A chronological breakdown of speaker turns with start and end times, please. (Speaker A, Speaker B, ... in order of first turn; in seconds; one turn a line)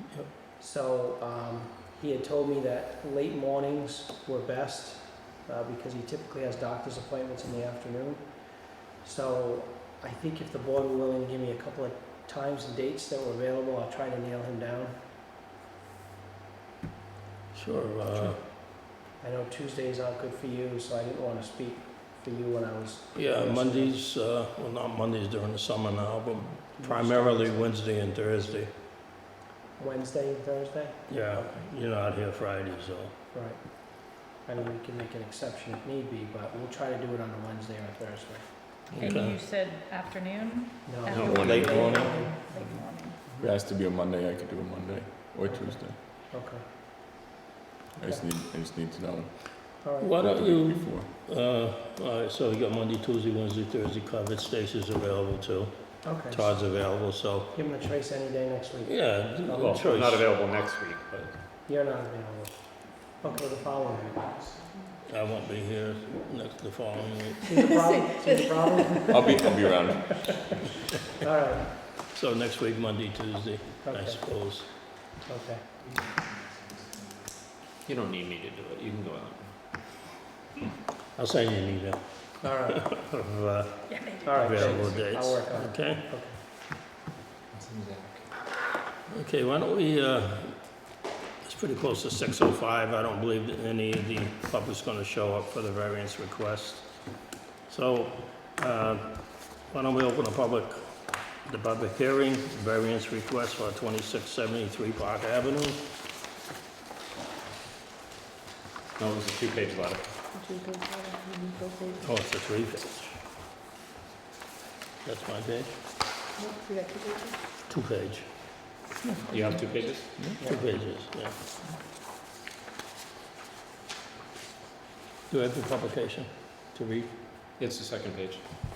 Speaker A: 0.6-8.3
Speaker A: 9.0-14.9
Speaker B: 17.5-18.4
Speaker A: 19.2-23.9
Speaker B: 23.1-28.7
Speaker A: 26.7-27.6
Speaker A: 29.8-31.7
Speaker B: 31.1-33.1
Speaker A: 33.3-38.8
Speaker B: 38.9-39.4
Speaker C: 39.0-43.2
Speaker A: 40.9-42.3
Speaker D: 41.1-41.9
Speaker E: 41.2-41.7
Speaker B: 41.4-42.1
Speaker E: 42.5-46.0
Speaker A: 45.5-45.8
Speaker A: 46.3-46.6
Speaker E: 48.0-51.1
Speaker A: 49.8-50.1
Speaker B: 50.0-57.6
Speaker A: 56.0-56.5
Speaker A: 57.5-59.8
Speaker B: 58.8-60.3
Speaker D: 59.5-61.3
Speaker A: 61.6-64.5
Speaker B: 65.1-67.7
Speaker A: 67.4-70.0
Speaker C: 67.8-68.7
Speaker E: 69.1-70.4
Speaker A: 71.2-71.7
Speaker B: 72.0-74.7
Speaker A: 73.8-74.2
Speaker A: 75.1-75.7
Speaker D: 77.8-79.5
Speaker B: 81.2-86.0
Speaker A: 82.4-82.9
Speaker C: 83.9-84.8
Speaker A: 84.2-86.4
Speaker D: 87.5-88.2
Speaker B: 89.1-90.7
Speaker B: 91.4-97.0
Speaker B: 97.7-105.9
Speaker D: 109.0-110.1
Speaker C: 110.3-112.1
Speaker B: 112.0-113.2
Speaker B: 115.0-115.8
Speaker C: 116.3-117.4
Speaker B: 117.7-118.3
Speaker E: 119.0-120.4
Speaker D: 119.3-120.1
Speaker A: 120.4-120.7
Speaker B: 120.4-121.4
Speaker B: 125.3-127.1
Speaker D: 127.6-128.4